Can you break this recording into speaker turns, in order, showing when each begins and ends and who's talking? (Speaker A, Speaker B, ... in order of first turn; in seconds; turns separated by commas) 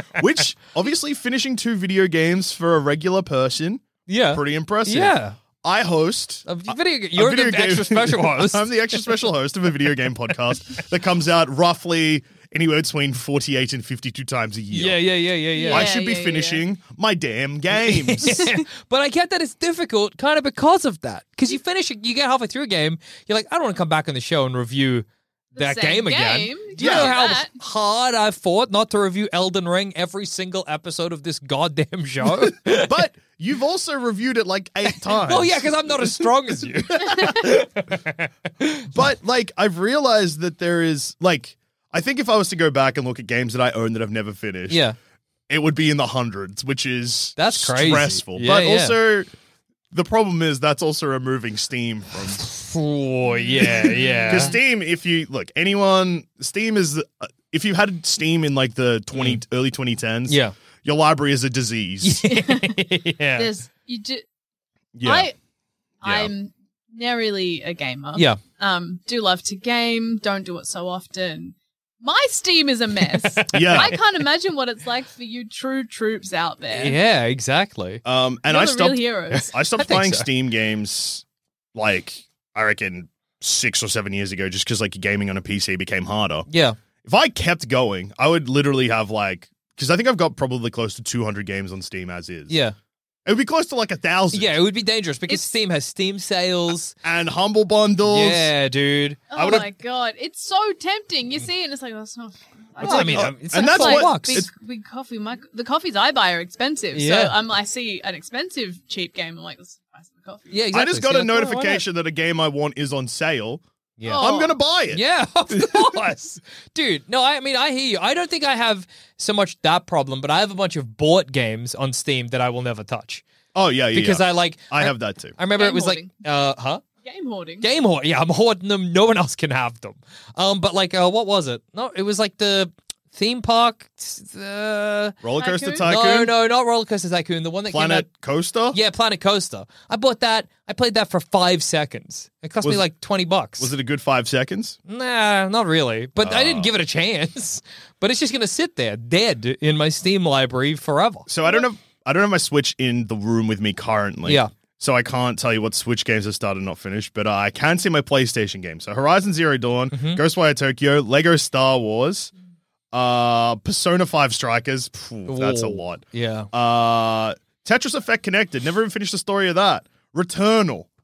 Speaker A: 0.1-15.0, Speaker B: 4.1-5.4, Speaker B: 6.5-8.7, Speaker B: 14.7-15.9, Speaker C: 15.6-16.6, Speaker A: 15.7-18.4, Speaker B: 17.9-25.1, Speaker C: 25.5-27.5, Speaker B: 25.6-32.9, Speaker A: 26.8-27.2, Speaker A: 32.6-37.5, Speaker B: 35.1-38.9, Speaker A: 38.9-44.8, Speaker B: 44.7-45.0, Speaker A: 45.5-49.3, Speaker B: 47.4-49.0, Speaker A: 49.9-52.4, Speaker B: 52.4-54.5, Speaker C: 53.4-54.5, Speaker A: 53.6-62.2, Speaker B: 59.1-59.4, Speaker B: 60.3-60.5, Speaker B: 62.0-63.5, Speaker C: 62.2-62.8, Speaker C: 63.4-64.2, Speaker A: 65.0-65.3, Speaker C: 65.0-65.3, Speaker C: 66.0-77.0, Speaker A: 66.0-66.3, Speaker B: 73.1-74.0, Speaker A: 73.5-73.9, Speaker B: 76.7-78.0, Speaker A: 78.0-86.5, Speaker C: 78.5-79.5, Speaker B: 79.3-80.3, Speaker B: 86.5-86.8, Speaker A: 87.0-92.6, Speaker B: 92.5-92.7, Speaker A: 93.2-94.5, Speaker B: 94.3-96.9, Speaker A: 97.0-98.5, Speaker B: 98.0-99.6, Speaker C: 99.3-110.6, Speaker A: 99.3-99.7, Speaker B: 102.8-104.5, Speaker A: 102.8-104.5, Speaker B: 106.9-107.3, Speaker B: 110.5-111.8, Speaker A: 110.7-113.6, Speaker B: 114.0-114.3, Speaker C: 114.0-114.5, Speaker A: 114.2-116.0, Speaker B: 114.9-123.2, Speaker A: 123.5-125.3, Speaker B: 123.9-126.8, Speaker C: 125.5-126.1, Speaker C: 127.0-127.7, Speaker B: 127.6-135.2, Speaker A: 135.2-136.3, Speaker C: 135.4-135.8, Speaker B: 135.8-138.1, Speaker A: 137.7-138.8, Speaker B: 138.7-143.7, Speaker A: 143.6-144.8, Speaker B: 144.9-151.3, Speaker A: 146.2-146.7, Speaker A: 151.3-162.3, Speaker B: 154.2-154.5, Speaker B: 159.9-160.2, Speaker A: 162.9-170.9, Speaker B: 165.3-166.5